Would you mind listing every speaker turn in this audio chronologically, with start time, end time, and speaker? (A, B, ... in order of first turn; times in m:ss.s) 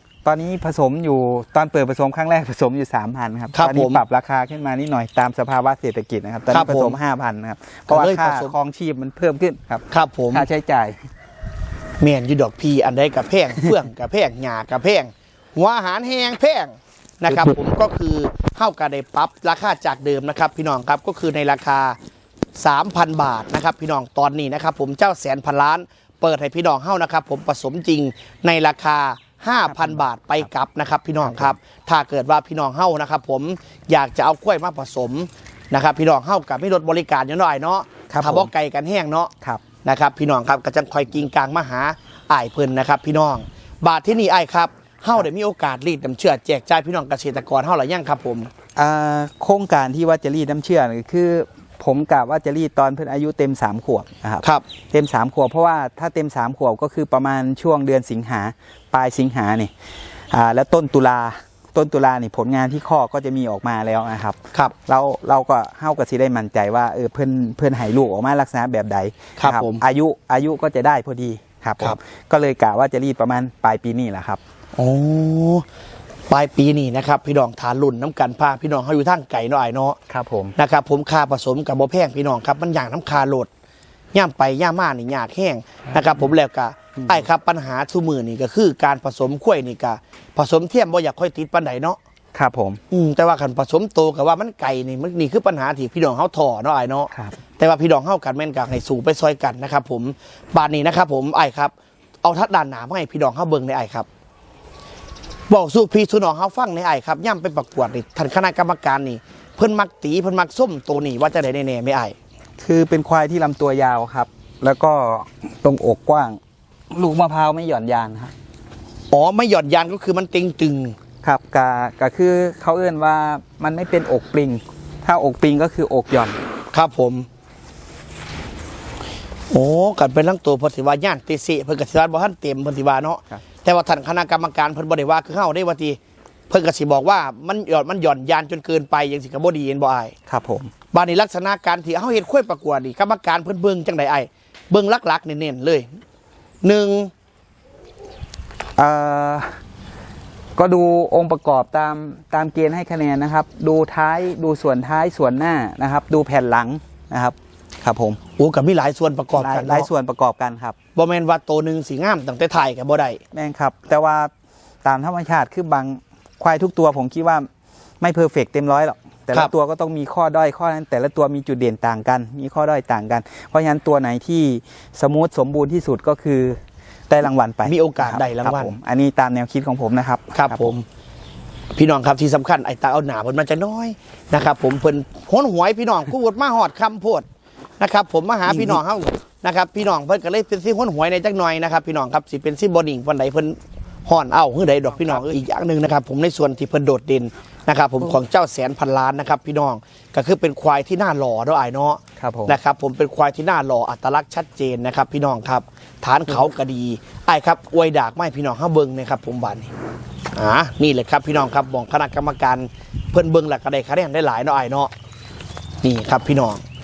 0:00.2-0:11.0 A
0:03.5-0:04.0 B
0:06.5-0:07.0 B
0:07.9-0:08.5 B
0:09.9-0:10.5 B
0:12.0-0:22.0 B
0:17.3-0:17.6 A
0:22.6-0:39.3 B
0:29.7-0:30.5 A
0:31.2-0:31.5 A
0:38.1-0:38.5 A
0:39.8-0:48.5 B
0:48.8-0:59.7 A
1:00.3-1:14.4 A
1:09.4-1:09.8 B
1:14.8-1:15.6 B
1:16.3-1:20.0 B
1:20.1-1:20.5 A
1:20.6-1:23.5 B
1:24.1-1:32.0 B
1:27.0-1:27.3 A
1:32.3-1:32.8 A
1:32.9-1:44.1 B
1:45.5-1:52.2 B
1:52.6-1:56.4 A
1:56.9-1:58.3 A
1:59.1-2:01.0 B
2:01.2-2:06.4 A
2:06.7-2:07.3 B
2:09.5-2:16.0 B
2:16.5-2:20.1 B
2:20.3-2:20.7 A
2:20.9-2:25.9 B
2:26.6-2:27.1 B
2:28.8-2:29.5 A
2:30.6-2:38.2 A
2:38.4-2:39.9 B
2:39.3-2:40.8 A
2:40.9-2:43.2 B
2:43.3-2:44.3 A
2:44.8-2:47.5 A
2:48.0-3:00.7 A
2:57.6-2:58.7 B
3:00.3-3:00.8 B
3:01.7-3:07.2 B
3:07.8-3:29.7 B
3:08.5-3:08.8 A
3:22.2-3:22.6 A
3:30.3-3:34.9 B
3:35.8-3:36.6 B